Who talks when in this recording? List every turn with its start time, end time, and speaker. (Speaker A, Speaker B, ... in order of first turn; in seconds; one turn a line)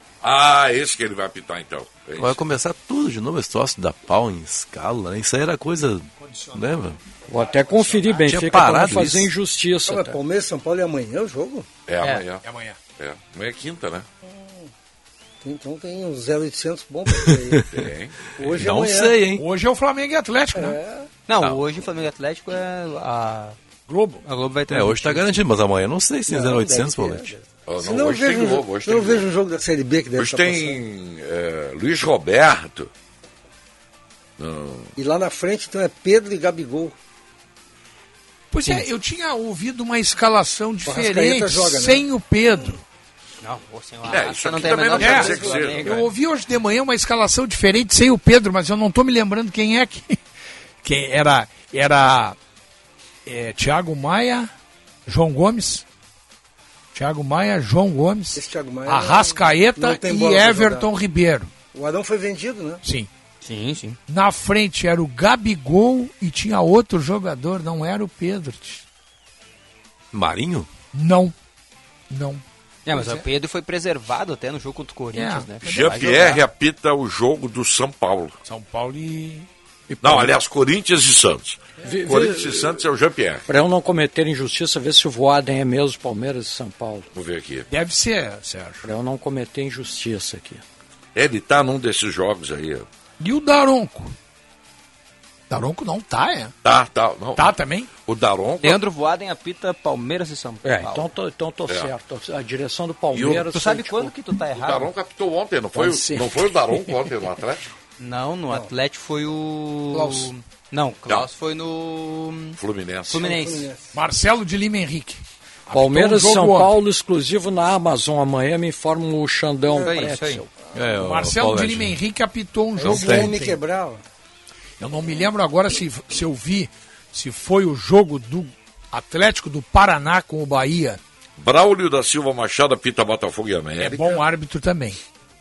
Speaker A: 0.2-2.4
Speaker B: 2.2-7.0
Speaker C: 6.2-8.3
Speaker D: 7.3-10.2
Speaker B: 8.2-9.3
Speaker E: 9.9-11.7
Speaker A: 11.9-12.4
Speaker C: 12.4-12.8
Speaker A: 13.0-14.1
Speaker E: 14.2-14.7
Speaker E: 15.4-17.6
Speaker B: 17.3-17.7
Speaker A: 17.7-18.3
Speaker E: 18.4-19.2
Speaker B: 18.5-19.4
Speaker C: 19.3-20.8
Speaker E: 20.5-21.1
Speaker F: 21.3-23.6
Speaker C: 23.9-24.2
Speaker F: 24.2-25.4
Speaker B: 24.7-27.3
Speaker E: 26.3-30.8
Speaker A: 27.7-29.2
Speaker A: 30.2-32.9
Speaker A: 34.4-34.9
Speaker E: 35.0-37.0
Speaker C: 38.5-42.8
Speaker E: 40.9-42.0
Speaker F: 43.4-46.0
Speaker A: 44.1-46.0
Speaker C: 45.0-50.2
Speaker E: 45.1-45.6
Speaker C: 50.8-52.4
Speaker C: 53.3-54.5
Speaker C: 55.1-55.8
Speaker C: 56.9-61.5
Speaker E: 58.3-60.9
Speaker E: 61.7-62.8
Speaker C: 62.8-63.1
Speaker F: 63.4-64.0
Speaker C: 64.1-68.8
Speaker B: 70.1-70.7
Speaker C: 70.9-71.3
Speaker C: 72.1-73.3
Speaker F: 72.9-76.4
Speaker C: 75.1-76.3
Speaker A: 75.6-78.4
Speaker C: 78.5-79.5
Speaker D: 79.9-80.3
Speaker A: 80.0-83.5
Speaker D: 81.8-82.8
Speaker D: 83.5-87.1
Speaker A: 87.1-87.7
Speaker C: 87.7-88.8
Speaker D: 88.8-90.6
Speaker A: 91.2-92.9
Speaker C: 93.2-94.2
Speaker C: 95.5-96.5
Speaker A: 96.6-97.5
Speaker C: 97.4-97.9
Speaker A: 98.0-98.8
Speaker F: 98.6-101.1
Speaker D: 100.6-104.2
Speaker F: 103.3-104.9
Speaker A: 104.5-107.7
Speaker D: 105.7-107.0
Speaker F: 108.0-113.7
Speaker C: 109.9-110.3
Speaker A: 112.6-113.3
Speaker E: 113.1-114.0
Speaker C: 113.9-116.7
Speaker D: 115.7-120.5
Speaker E: 119.7-120.1
Speaker F: 119.8-120.4
Speaker B: 120.7-122.0
Speaker C: 121.0-123.6
Speaker E: 122.8-124.0
Speaker B: 122.8-123.3
Speaker C: 124.8-131.0
Speaker A: 131.4-134.2
Speaker C: 133.8-135.0